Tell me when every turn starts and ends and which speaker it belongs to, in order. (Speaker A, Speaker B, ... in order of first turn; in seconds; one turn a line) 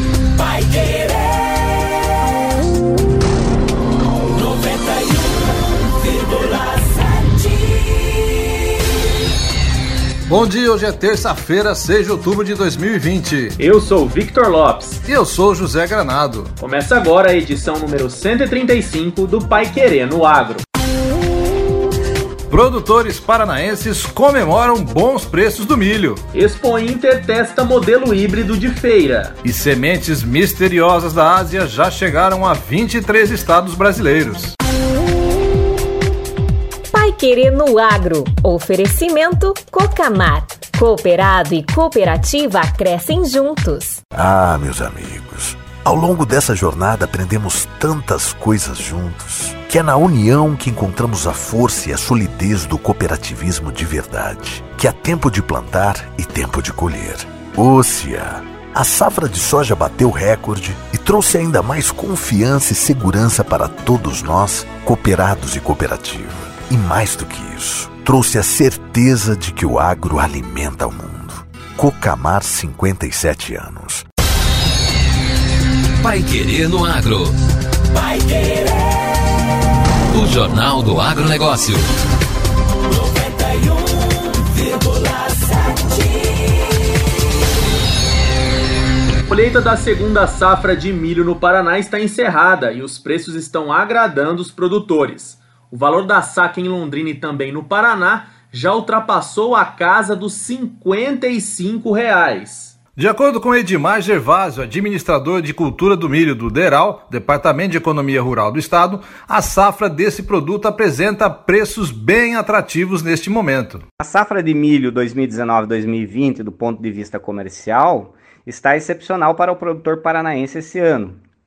Speaker A: 10.3-13.4
Speaker B: 13.6-15.0
Speaker A: 15.2-16.4
Speaker B: 16.6-20.6
Speaker A: 22.5-26.2
Speaker B: 26.3-29.4
Speaker A: 29.6-34.5
Speaker C: 36.9-44.0
Speaker D: 44.1-74.0
Speaker E: 76.0-77.3
Speaker E: 80.1-81.9
Speaker B: 89.3-102.7
Speaker A: 103.0-113.8
Speaker F: 114.0-121.2